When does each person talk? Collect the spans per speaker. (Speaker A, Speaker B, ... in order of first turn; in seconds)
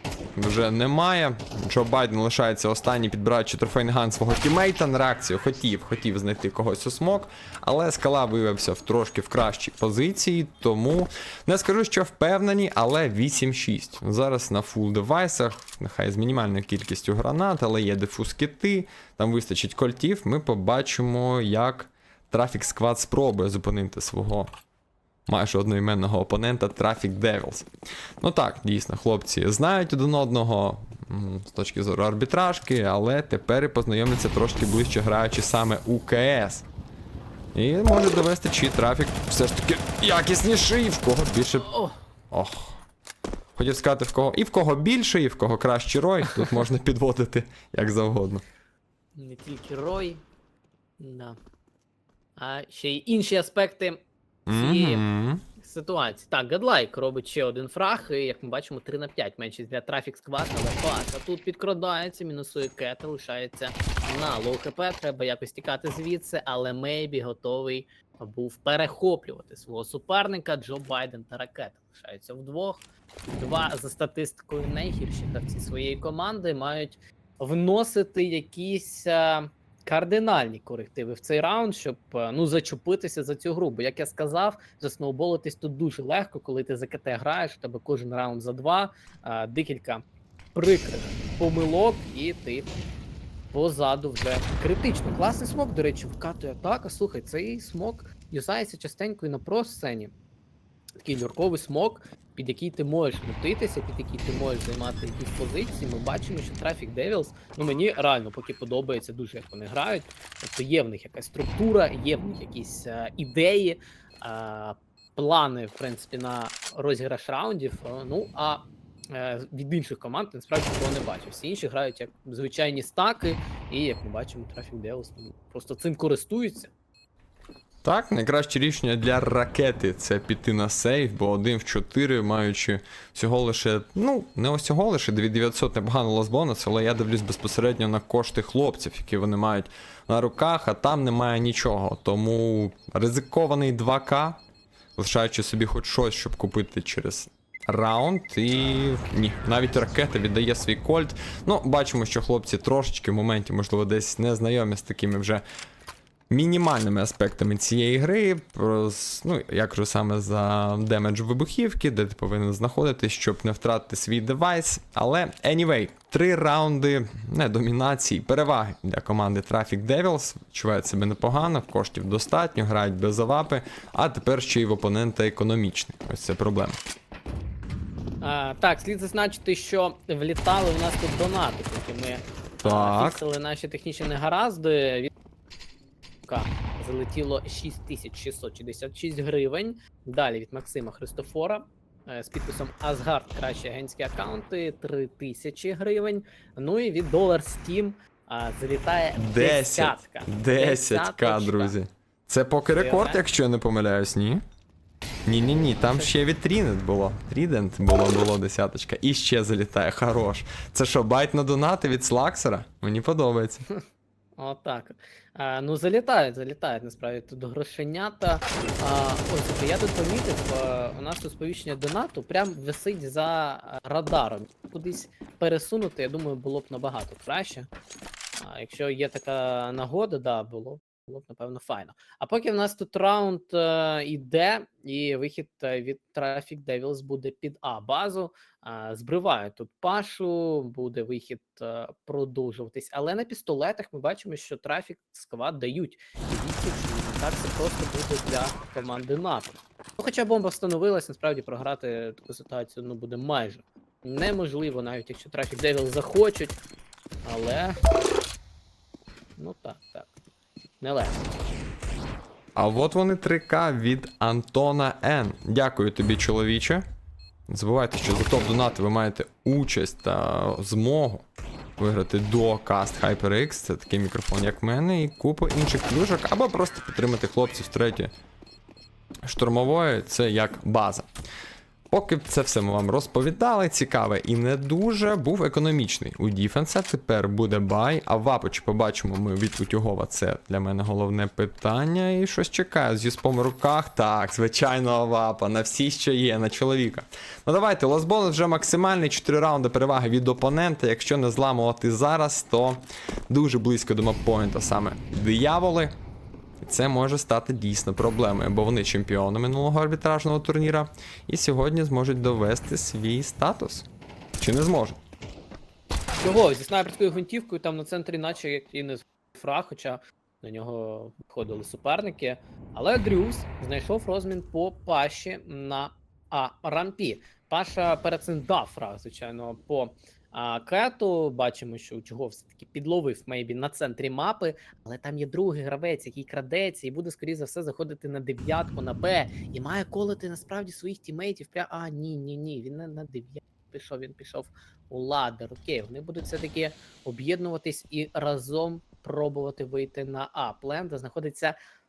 Speaker A: 0.3-24.5, 25.3-27.7, 28.2-36.6, 37.5-41.7, 42.3-42.8, 43.5-48.4, 54.5-55.4, 127.8-144.4, 145.0-155.4, 156.3-176.8, 182.6-183.2, 199.2-204.4, 205.2-213.6, 262.6-266.8, 267.5-271.2, 271.8-278.1, 279.2-281.1, 281.9-305.9, 306.6-315.0
Speaker B: 41.6-42.0, 46.2-46.6, 49.1-50.2, 51.0-51.4, 52.4-55.0, 55.6-72.8, 73.4-92.7, 93.5-100.1, 101.0-126.7, 178.2-185.1, 186.2-201.8, 202.7-203.2, 205.6-206.1, 214.4-227.7, 228.4-256.6, 257.2-257.8, 259.4-260.1, 260.8-261.3, 316.2-351.5